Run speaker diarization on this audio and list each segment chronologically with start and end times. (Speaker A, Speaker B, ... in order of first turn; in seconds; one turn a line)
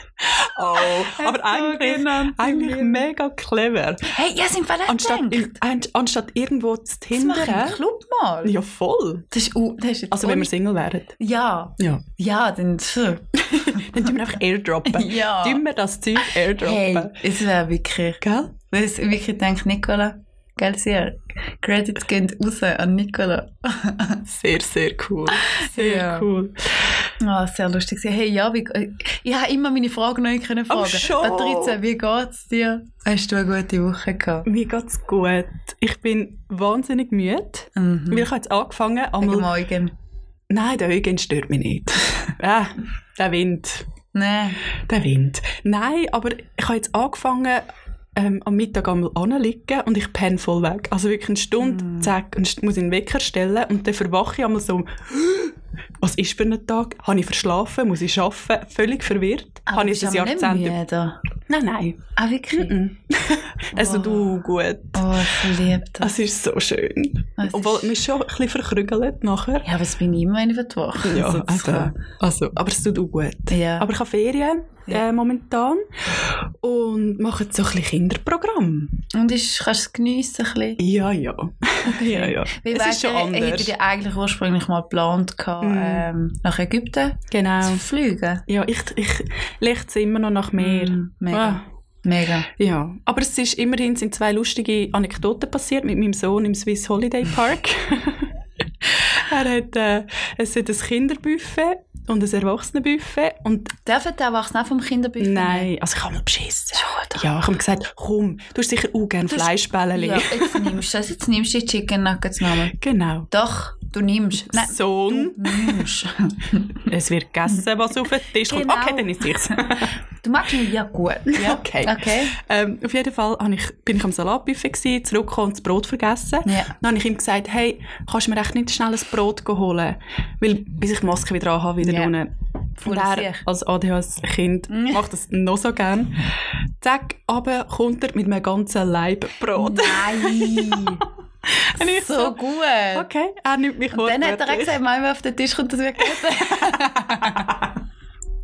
Speaker A: 0.2-4.1
Speaker B: 0.7-3.1
Speaker B: 4.0-5.6
Speaker A: 4.8-7.8
Speaker B: 7.1-8.6
Speaker A: 8.4-9.3
Speaker B: 9.3-10.5
Speaker A: 10.1-11.1
Speaker B: 11.2-14.0
Speaker A: 13.4-17.2
Speaker B: 14.9-15.6
Speaker B: 16.4-24.2
Speaker A: 18.2-18.5
Speaker A: 24.2-26.9
Speaker B: 25.3-26.3
Speaker B: 27.2-34.5
Speaker A: 30.7-31.8
Speaker A: 34.5-39.5
Speaker B: 37.7-38.3
Speaker B: 39.2-39.9
Speaker A: 40.5-43.9
Speaker B: 44.1-44.6
Speaker A: 44.8-60.8
Speaker B: 51.6-52.1
Speaker B: 59.7-61.2
Speaker A: 61.5-65.5
Speaker B: 62.1-62.8
Speaker B: 63.7-66.2
Speaker A: 66.0-69.7
Speaker B: 67.4-67.9
Speaker B: 69.6-71.9
Speaker A: 71.0-79.0
Speaker B: 73.5-73.9
Speaker B: 79.1-80.8
Speaker A: 80.8-83.7
Speaker B: 81.8-88.4
Speaker A: 85.6-86.1
Speaker A: 87.3-87.8
Speaker A: 88.5-91.6
Speaker B: 90.6-92.5
Speaker A: 92.6-103.8
Speaker B: 103.8-105.7
Speaker A: 105.2-110.8
Speaker B: 106.7-107.2
Speaker B: 109.3-112.8
Speaker A: 112.7-113.3
Speaker B: 113.3-116.9
Speaker A: 114.4-115.9
Speaker A: 116.8-119.9
Speaker B: 118.4-122.4
Speaker A: 121.3-142.4
Speaker B: 126.4-126.7
Speaker B: 131.8-132.1
Speaker B: 132.8-133.4
Speaker B: 134.7-135.1
Speaker B: 139.5-141.1
Speaker B: 141.7-143.1
Speaker A: 142.9-144.8
Speaker B: 143.9-147.7
Speaker A: 146.2-147.7